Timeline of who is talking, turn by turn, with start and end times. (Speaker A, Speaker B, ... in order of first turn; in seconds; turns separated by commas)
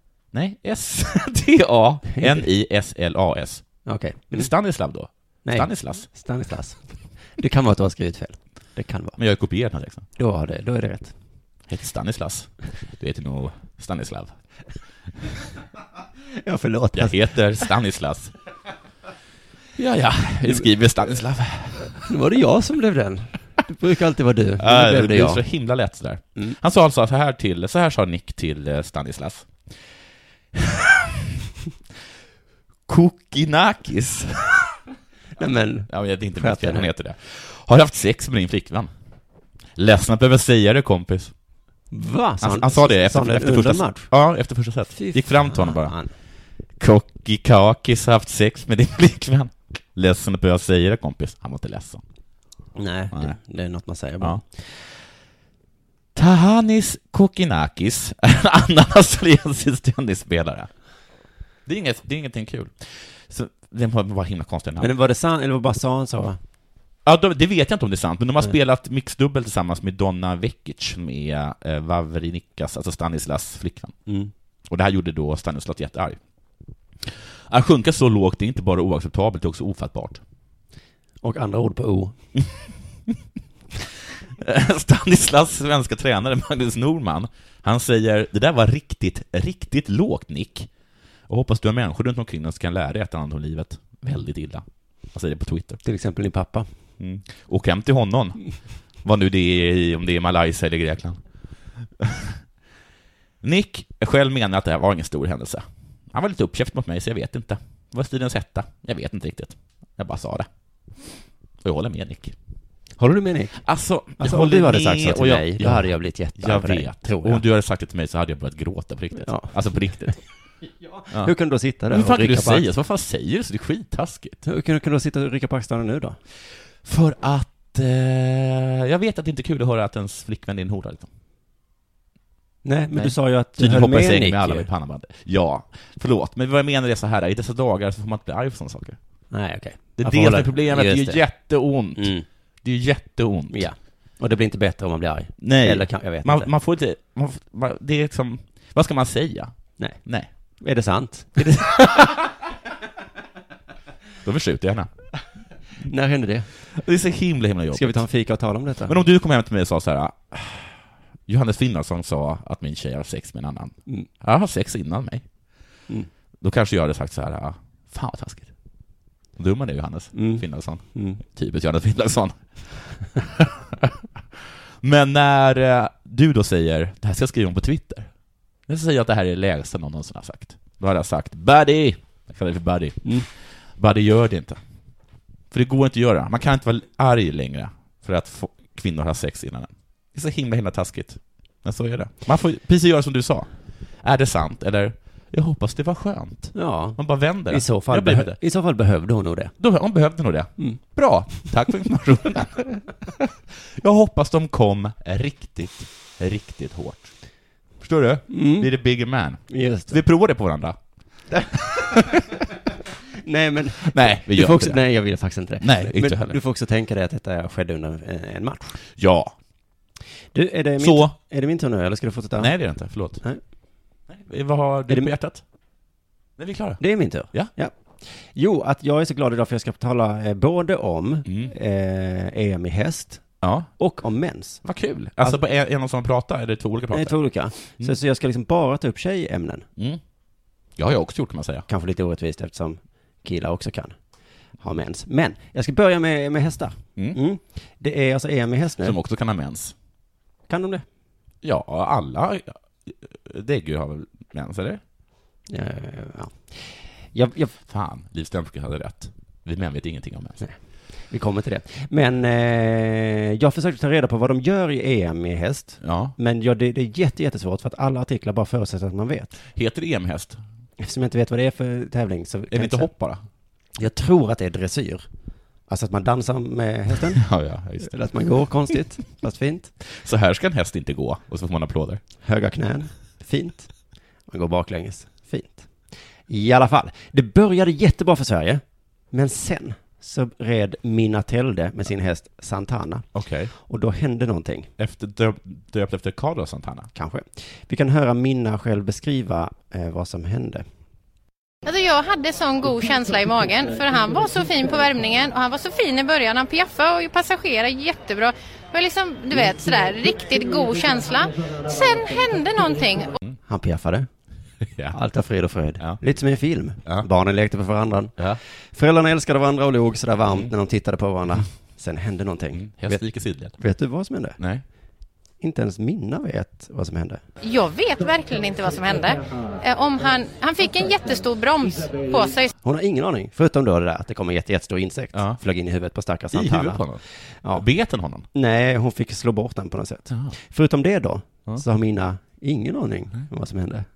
Speaker A: 0.3-3.6, Speaker B: 2.1-2.5, Speaker B: 3.9-4.5, Speaker A: 4.3-6.1, Speaker B: 5.5-9.2, Speaker A: 9.2-10.1, Speaker B: 10.2-11.1, Speaker A: 11.7-14.3, Speaker B: 16.4-17.3, Speaker A: 16.9-18.3, Speaker A: 19.8-22.0, Speaker B: 21.9-25.4, Speaker A: 24.6-29.6, Speaker A: 30.5-31.3, Speaker A: 32.9-34.8, Speaker B: 35.4-36.9, Speaker A: 35.9-38.9, Speaker A: 39.8-41.3, Speaker B: 41.9-44.1, Speaker A: 42.4-46.0, Speaker B: 45.0-46.1, Speaker A: 46.8-52.0, Speaker B: 52.8-54.4, Speaker A: 56.1-60.7, Speaker A: 61.7-64.9, Speaker B: 64.8-66.4, Speaker A: 67.0-74.0, Speaker A: 74.7-76.2, Speaker A: 77.0-80.2, Speaker B: 81.2-82.2, Speaker A: 84.4-90.7, Speaker A: 91.3-95.8, Speaker B: 95.8-96.7, Speaker A: 97.0-101.2, Speaker A: 102.0-102.4, Speaker A: 103.4-110.5, Speaker A: 111.6-112.3, Speaker B: 113.0-113.6, Speaker A: 113.6-120.2, Speaker B: 114.2-117.4, Speaker B: 119.2-120.2, Speaker B: 120.8-122.7, Speaker A: 121.9-124.4, Speaker B: 124.4-126.2, Speaker A: 126.8-131.1, Speaker B: 132.7-134.7, Speaker A: 132.9-139.0, Speaker B: 139.3-141.2, Speaker A: 140.0-143.7, Speaker B: 142.0-142.3, Speaker B: 143.5-146.5, Speaker A: 145.4-149.5, Speaker B: 150.6-151.6, Speaker A: 151.4-152.3, Speaker A: 154.2-154.9, Speaker B: 155.8-156.5, Speaker A: 156.7-158.0, Speaker B: 157.7-159.0, Speaker A: 158.9-165.2, Speaker A: 166.4-168.5, Speaker A: 169.4-178.1, Speaker B: 170.1-171.2, Speaker A: 178.7-183.2, Speaker A: 183.8-184.6, Speaker A: 185.5-193.5, Speaker A: 194.0-198.4, Speaker B: 196.6-199.5, Speaker A: 199.6-202.8, Speaker A: 203.8-207.1, Speaker A: 207.8-210.8, Speaker B: 208.3-208.7, Speaker B: 209.5-210.0, Speaker B: 211.3-212.2, Speaker A: 211.5-212.2, Speaker B: 213.2-218.8, Speaker A: 213.8-214.8, Speaker A: 215.6-216.4, Speaker A: 219.0-219.3, Speaker B: 220.3-223.4, Speaker A: 220.8-221.2, Speaker A: 222.4-223.2, Speaker A: 224.1-225.4, Speaker A: 226.4-227.5, Speaker B: 226.8-234.7, Speaker A: 231.3-231.5, Speaker A: 233.4-233.7, Speaker A: 234.6-237.2, Speaker B: 236.9-239.7, Speaker A: 240.8-241.7, Speaker B: 241.7-244.0, Speaker B: 244.6-249.0, Speaker A: 248.8-249.8, Speaker B: 250.5-250.8, Speaker A: 251.4-254.8, Speaker B: 255.5-257.5, Speaker A: 257.7-260.4, Speaker B: 261.1-269.4, Speaker A: 265.8-266.1, Speaker A: 269.6-270.4, Speaker B: 270.8-272.9, Speaker A: 272.5-273.2, Speaker B: 273.8-275.1, Speaker B: 275.7-277.2, Speaker A: 277.1-278.0, Speaker B: 277.8-279.7, Speaker A: 279.9-282.0, Speaker B: 282.2-283.7, Speaker B: 284.3-285.7, Speaker B: 286.3-293.1, Speaker A: 293.1-293.5, Speaker B: 293.6-294.7, Speaker A: 294.8-296.9, Speaker B: 296.9-300.6, Speaker C: 301.6-313.2, Speaker B: 313.5-314.1, Speaker A: 314.6-315.0, Speaker B: 314.9-318.2, Speaker B: 318.7-324.4, Speaker A: 322.6-323.6, Speaker A: 324.4-324.6, Speaker B: 325.4-327.2, Speaker C: 327.4-332.5, Speaker B: 332.6-336.8, Speaker A: 335.1-335.4, Speaker A: 336.3-338.3, Speaker B: 338.3-343.9